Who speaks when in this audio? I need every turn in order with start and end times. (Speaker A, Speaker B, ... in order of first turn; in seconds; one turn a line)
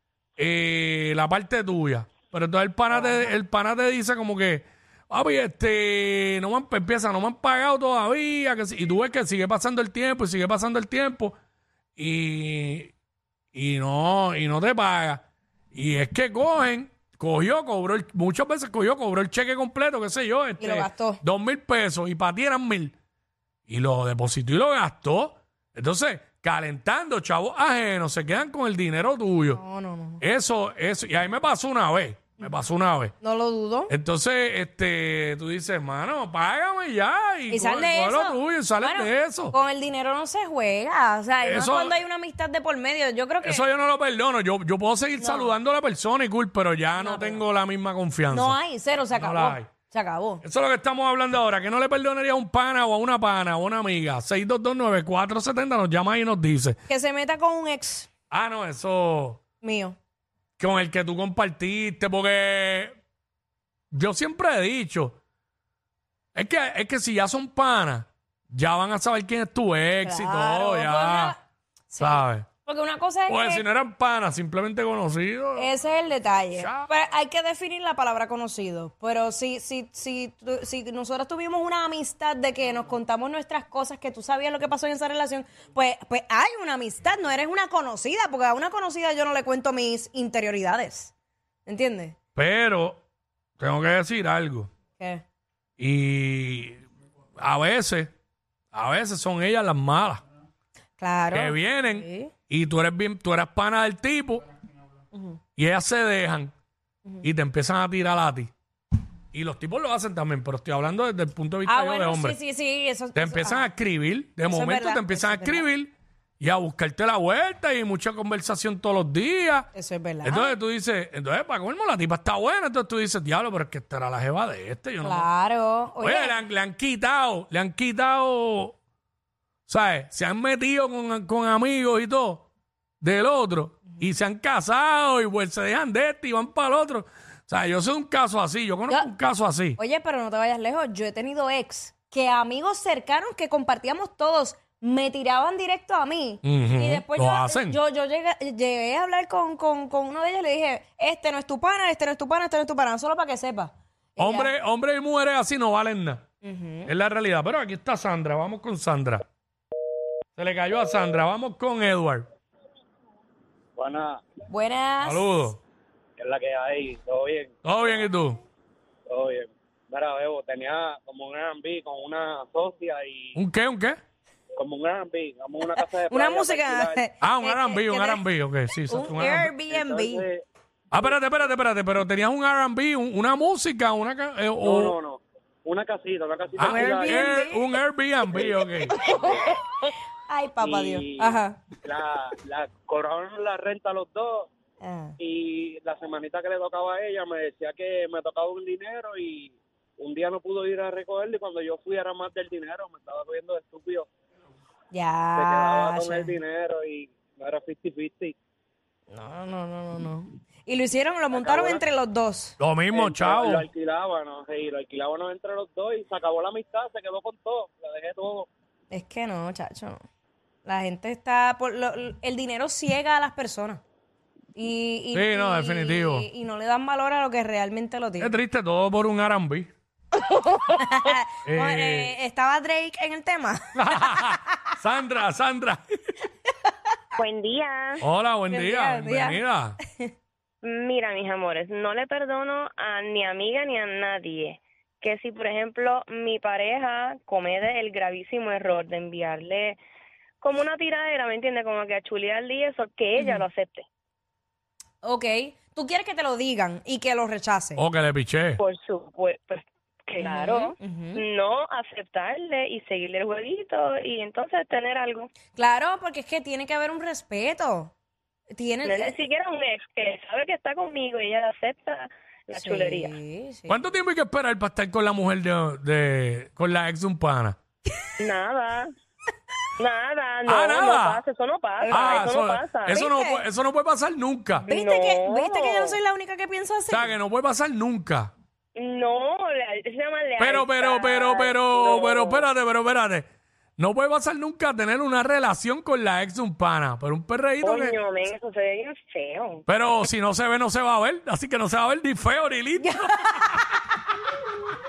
Speaker A: 0.4-11.3
Speaker A: 12.0-12.9
Speaker A: 13.5-22.9
Speaker B: 20.6-21.2
Speaker A: 23.7-29.6
Speaker B: 29.5-30.2
Speaker A: 30.2-33.1
Speaker B: 33.2-33.9
Speaker A: 33.9-39.5
Speaker B: 37.5-43.6
Speaker A: 41.4-42.0
Speaker A: 43.4-48.6
Speaker B: 45.2-45.5
Speaker B: 46.9-47.4
Speaker B: 48.3-50.4
Speaker A: 49.1-49.7
Speaker A: 50.4-56.8
Speaker B: 56.9-58.1
Speaker A: 58.3-59.4
Speaker B: 59.6-60.0
Speaker A: 60.6-63.0
Speaker A: 63.9-65.2
Speaker A: 66.3-71.3
Speaker B: 70.0-71.4
Speaker B: 71.9-73.6
Speaker A: 72.0-72.5
Speaker A: 73.3-75.7
Speaker B: 75.5-91.1
Speaker A: 76.5-76.9
Speaker B: 91.7-92.2
Speaker A: 92.3-93.0
Speaker A: 93.6-94.7
Speaker B: 95.0-95.2
Speaker A: 95.8-96.8
Speaker A: 97.4-98.1
Speaker A: 98.7-100.2
Speaker B: 101.0-102.3
Speaker A: 101.3-104.5
Speaker B: 105.1-105.4
Speaker A: 105.6-106.5
Speaker A: 107.2-108.5
Speaker A: 109.3-112.4
Speaker B: 111.6-113.7
Speaker A: 113.1-119.7
Speaker B: 114.5-115.7
Speaker B: 119.7-120.5
Speaker A: 120.2-125.3
Speaker B: 125.0-126.4
Speaker A: 126.0-128.7
Speaker A: 129.7-132.5
Speaker A: 133.0-139.8
Speaker B: 139.8-154.5
Speaker A: 146.4-147.8
Speaker A: 154.2-156.2
Speaker B: 156.4-156.9
Speaker A: 156.8-159.2
Speaker A: 160.4-162.3
Speaker C: 163.8-164.2
Speaker B: 164.5-165.3
Speaker A: 165.0-165.6
Speaker C: 166.2-167.6
Speaker A: 167.6-168.4
Speaker C: 169.1-173.4
Speaker A: 173.3-174.0
Speaker C: 174.6-177.0
Speaker B: 175.8-178.2
Speaker A: 177.2-179.5
Speaker B: 178.9-180.2
Speaker C: 179.7-180.4
Speaker A: 180.9-184.9
Speaker C: 184.6-187.4
Speaker A: 186.6-189.0
Speaker B: 186.6-187.7
Speaker C: 188.3-188.6
Speaker B: 189.0-189.5
Speaker D: 189.1-189.4
Speaker B: 190.3-191.6
Speaker C: 190.6-194.5
Speaker B: 194.8-195.2
Speaker C: 195.2-204.1
Speaker B: 204.9-206.3
Speaker C: 205.3-208.3
Speaker B: 209.1-212.6
Speaker C: 211.3-211.8
Speaker A: 212.6-213.7
Speaker C: 212.9-218.5
Speaker B: 218.9-220.0
Speaker B: 220.6-223.8
Speaker B: 224.5-228.4
Speaker A: 225.1-226.3
Speaker A: 228.2-229.7
Speaker B: 230.6-234.4
Speaker A: 231.4-232.1
Speaker A: 233.7-235.8
Speaker D: 237.2-238.0
Speaker A: 238.0-239.8
Speaker B: 238.5-240.1
Speaker D: 240.6-249.8
Speaker D: 250.4-253.9
Speaker B: 253.2-253.4
Speaker B: 255.0-257.8
Speaker A: 257.8-258.6
Speaker D: 258.6-265.3
Speaker B: 260.2-261.2
Speaker B: 265.5-267.9
Speaker B: 268.5-269.1
Speaker D: 268.8-273.1
Speaker B: 272.5-273.8
Speaker A: 273.7-277.6
Speaker D: 278.2-278.9
Speaker D: 279.8-283.0
Speaker A: 280.4-281.2
Speaker A: 281.9-284.7
Speaker B: 281.9-282.3
Speaker B: 282.9-283.4
Speaker D: 284.6-286.0
Speaker B: 284.7-287.1
Speaker A: 286.9-288.3
Speaker D: 288.7-292.4
Speaker A: 290.4-293.3
Speaker A: 293.8-297.9
Speaker D: 297.6-299.6
Speaker A: 299.7-303.6
Speaker B: 302.8-303.5